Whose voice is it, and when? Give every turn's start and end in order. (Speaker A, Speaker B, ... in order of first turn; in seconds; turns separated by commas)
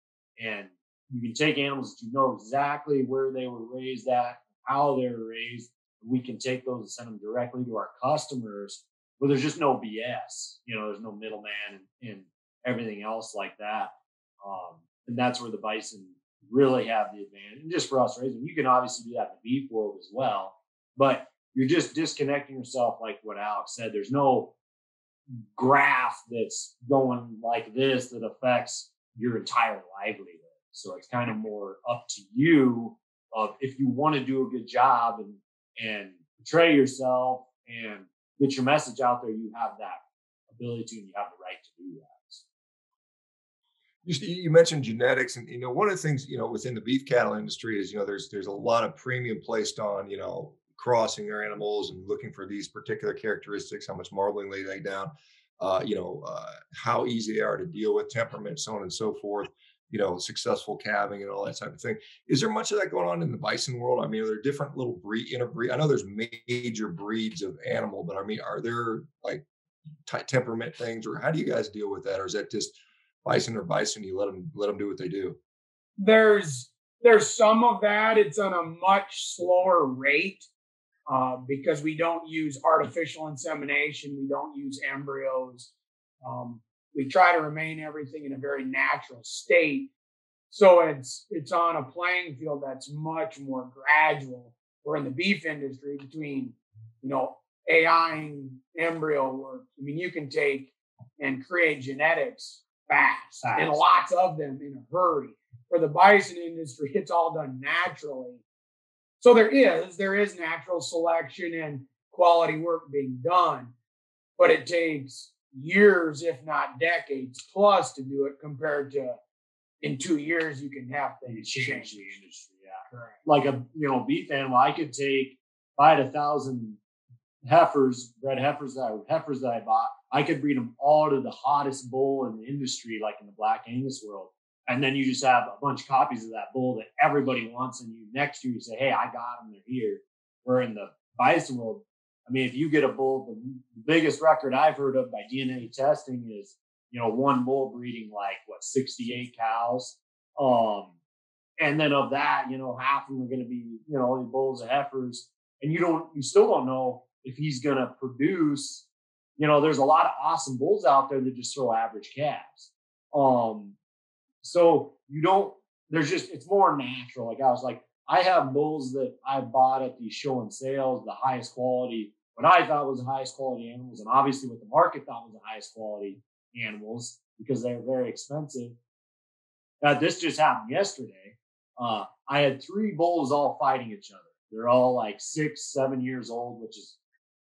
Speaker A: 0.4-24.5, Speaker A: 25.4-42.4, Speaker B: 44.0-69.4, Speaker B: 70.0-75.4, Speaker C: 76.0-80.5, Speaker C: 81.1-85.7, Speaker C: 86.2-89.9, Speaker C: 90.5-108.4, Speaker A: 103.4-103.8, Speaker C: 109.2-113.7, Speaker C: 114.4-119.2, Speaker C: 119.8-121.9, Speaker A: 121.3-126.8, Speaker C: 122.9-123.2, Speaker A: 127.4-150.9, Speaker A: 151.6-163.8, Speaker A: 164.4-178.8, Speaker A: 179.8-187.0